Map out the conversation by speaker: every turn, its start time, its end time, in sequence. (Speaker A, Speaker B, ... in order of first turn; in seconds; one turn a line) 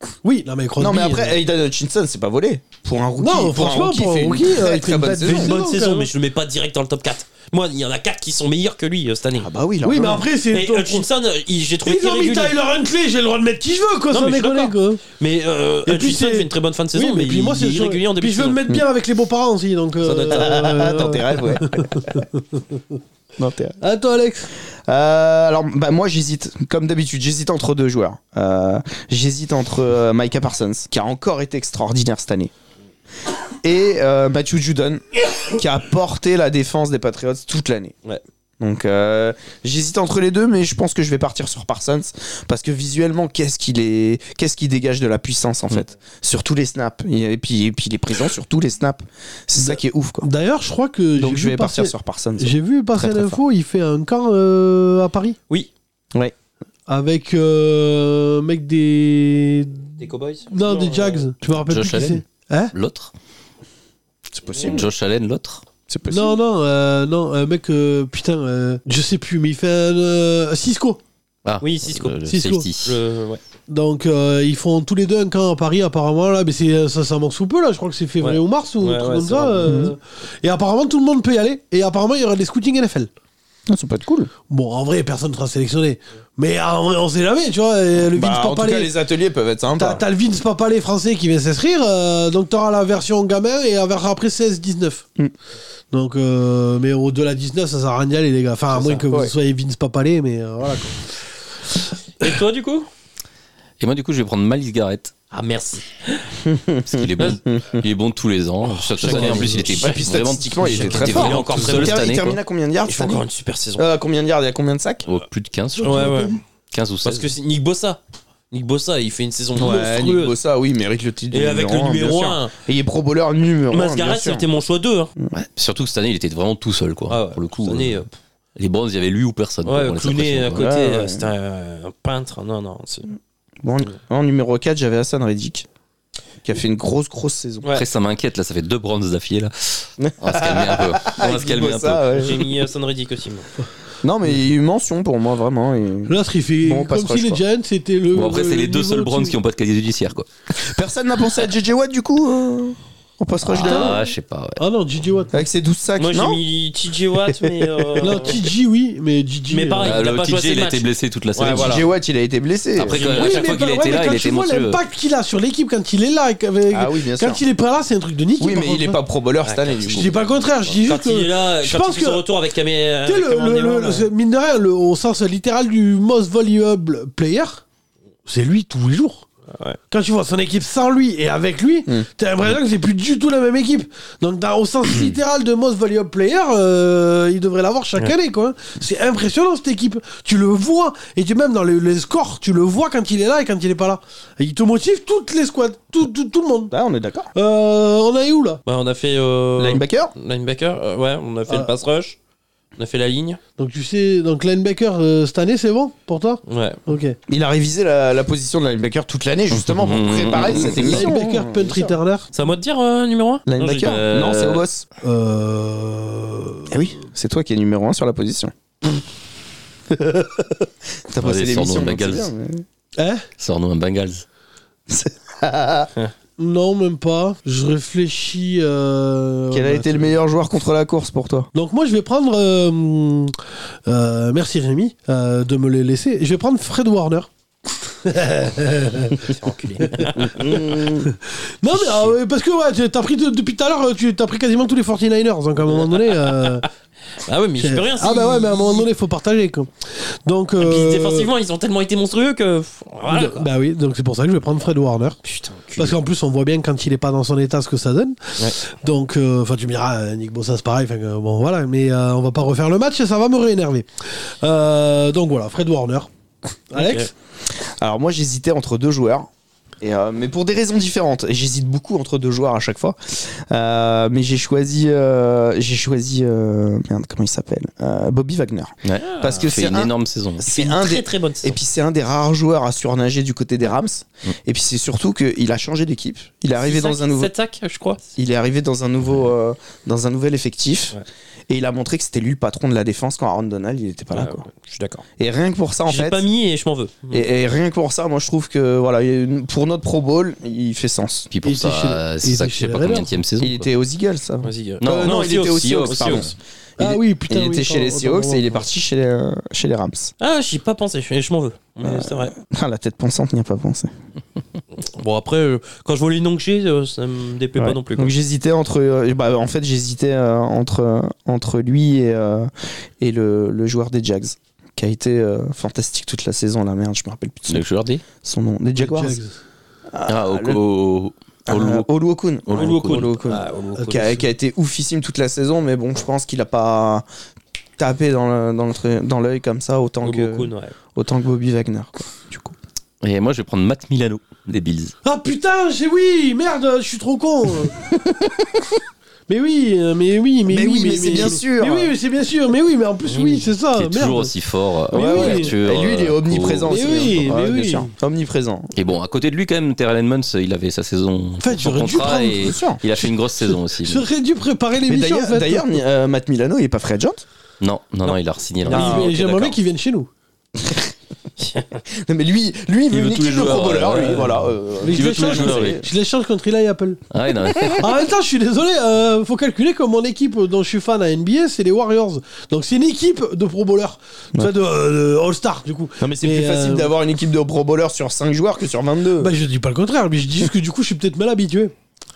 Speaker A: 0.2-1.4
Speaker B: 0.8-5.5
Speaker A: 3.2-6.1
Speaker C: 5.2-9.5
Speaker B: 9.4-10.2
Speaker A: 9.8-11.1
Speaker C: 10.5-12.6
Speaker A: 11.8-15.0
Speaker C: 14.1-18.6
Speaker A: 15.8-22.8
Speaker C: 20.0-20.6
Speaker B: 20.3-22.2
Speaker B: 23.4-23.8
Speaker A: 23.8-24.5
Speaker B: 24.9-32.5
Speaker B: 33.6-37.9
Speaker B: 38.6-50.3
Speaker A: 49.6-55.4
Speaker B: 51.1-53.4
Speaker A: 56.9-62.7
Speaker C: 60.0-61.3
Speaker D: 61.5-62.2
Speaker D: 62.7-63.1
Speaker B: 64.3-64.8
Speaker D: 64.6-65.6
Speaker B: 65.9-66.4
Speaker A: 66.1-71.0
Speaker D: 71.4-73.0
Speaker C: 71.6-72.2
Speaker A: 72.3-72.7
Speaker C: 72.8-73.4
Speaker A: 73.7-83.1
Speaker C: 78.2-79.8
Speaker B: 79.6-79.9
Speaker B: 83.7-84.3
Speaker A: 84.5-88.9
Speaker B: 88.1-90.0
Speaker A: 89.8-95.0
Speaker A: 95.9-101.2
Speaker B: 98.7-99.3
Speaker C: 102.2-102.9
Speaker D: 103.8-105.1
Speaker C: 105.3-106.2
Speaker B: 106.5-107.8
Speaker D: 106.9-112.4
Speaker C: 109.0-109.6
Speaker B: 109.0-113.2
Speaker A: 109.3-109.6
Speaker C: 110.6-112.2
Speaker C: 112.8-113.8
Speaker B: 113.8-115.0
Speaker D: 115.0-117.3
Speaker C: 115.8-116.3
Speaker A: 115.8-116.2
Speaker C: 117.0-118.0
Speaker C: 118.5-120.3
Speaker B: 119.5-124.5
Speaker C: 121.3-122.5
Speaker C: 123.7-125.1
Speaker D: 125.3-128.1
Speaker C: 127.1-128.1
Speaker D: 128.6-130.7
Speaker C: 129.7-133.1
Speaker B: 130.6-131.3
Speaker B: 133.6-135.7
Speaker B: 136.4-137.7
Speaker D: 137.7-142.3
Speaker B: 140.0-142.5
Speaker C: 142.2-143.5
Speaker B: 144.0-147.4
Speaker A: 146.1-149.3
Speaker D: 148.1-150.3
Speaker B: 150.6-154.0
Speaker D: 153.4-154.6
Speaker A: 154.6-155.4
Speaker B: 155.3-156.4
Speaker C: 156.0-158.4
Speaker B: 157.3-158.3
Speaker A: 158.0-160.0
Speaker C: 159.5-161.9
Speaker D: 159.8-161.9
Speaker B: 161.4-163.0
Speaker D: 162.8-164.8
Speaker C: 162.9-163.4
Speaker A: 163.0-169.0
Speaker B: 166.7-167.4
Speaker B: 168.4-170.3
Speaker C: 169.4-170.0
Speaker A: 169.9-172.2
Speaker C: 170.8-174.1
Speaker A: 173.1-177.6
Speaker A: 178.2-179.3
Speaker C: 179.5-179.8
Speaker A: 179.9-196.7
Speaker B: 196.7-197.3
Speaker A: 197.3-198.6
Speaker C: 198.7-202.2
Speaker B: 199.6-200.1
Speaker C: 202.8-203.4
Speaker A: 203.6-207.2
Speaker C: 206.5-206.8
Speaker B: 207.3-212.0
Speaker D: 209.5-211.1
Speaker A: 210.7-212.3
Speaker C: 212.3-214.0
Speaker B: 213.5-214.8
Speaker D: 213.8-214.6
Speaker A: 215.0-216.8
Speaker B: 216.7-218.5
Speaker B: 219.9-220.5
Speaker B: 221.1-222.6
Speaker D: 221.2-222.3
Speaker A: 223.0-223.2
Speaker D: 223.4-224.2
Speaker B: 224.9-225.9
Speaker A: 226.4-230.2
Speaker B: 229.5-231.5
Speaker A: 231.5-237.3
Speaker A: 237.8-246.7
Speaker C: 239.2-240.6
Speaker B: 240.2-241.1
Speaker C: 241.7-242.1
Speaker C: 245.7-246.7
Speaker C: 247.2-248.9
Speaker A: 247.6-251.3
Speaker C: 250.6-253.5
Speaker A: 253.1-255.2
Speaker C: 255.2-256.0
Speaker A: 255.8-266.1
Speaker A: 266.7-267.1
Speaker C: 266.7-267.1
Speaker B: 267.6-269.3
Speaker B: 269.8-287.3
Speaker D: 278.8-280.4
Speaker C: 279.0-279.5
Speaker C: 280.5-281.6
Speaker C: 286.6-288.0
Speaker B: 288.1-291.0
Speaker B: 291.5-294.4
Speaker C: 294.1-295.0
Speaker B: 295.2-296.2
Speaker C: 295.9-297.3
Speaker B: 297.1-301.3
Speaker D: 301.3-303.7
Speaker A: 301.4-303.1
Speaker B: 303.4-310.1
Speaker C: 304.4-306.3
Speaker D: 304.8-306.3
Speaker A: 306.8-308.6
Speaker C: 310.2-312.3
Speaker B: 311.8-313.9
Speaker C: 314.8-318.1
Speaker B: 317.6-329.2
Speaker D: 327.5-328.0
Speaker A: 328.8-329.4
Speaker B: 329.9-330.6
Speaker D: 330.1-331.9
Speaker B: 331.5-337.0
Speaker D: 332.4-333.1
Speaker C: 332.5-334.2
Speaker A: 333.8-334.2
Speaker B: 337.8-342.5
Speaker C: 340.0-340.7
Speaker D: 343.0-344.9
Speaker A: 345.0-347.7
Speaker B: 348.1-348.4
Speaker A: 349.3-354.3
Speaker B: 350.5-351.9
Speaker C: 353.1-353.5
Speaker D: 353.7-357.1
Speaker A: 354.9-355.5
Speaker B: 354.9-358.7
Speaker A: 356.7-357.9
Speaker D: 358.7-364.1
Speaker A: 361.4-365.8
Speaker B: 362.3-362.8
Speaker B: 364.9-367.2
Speaker D: 367.6-369.5
Speaker A: 368.6-370.1
Speaker B: 368.7-369.1
Speaker B: 370.6-370.9
Speaker B: 371.9-375.9
Speaker D: 372.9-375.8
Speaker A: 374.8-377.0
Speaker D: 377.1-377.8
Speaker A: 377.6-386.9
Speaker B: 386.0-389.3
Speaker A: 389.2-391.7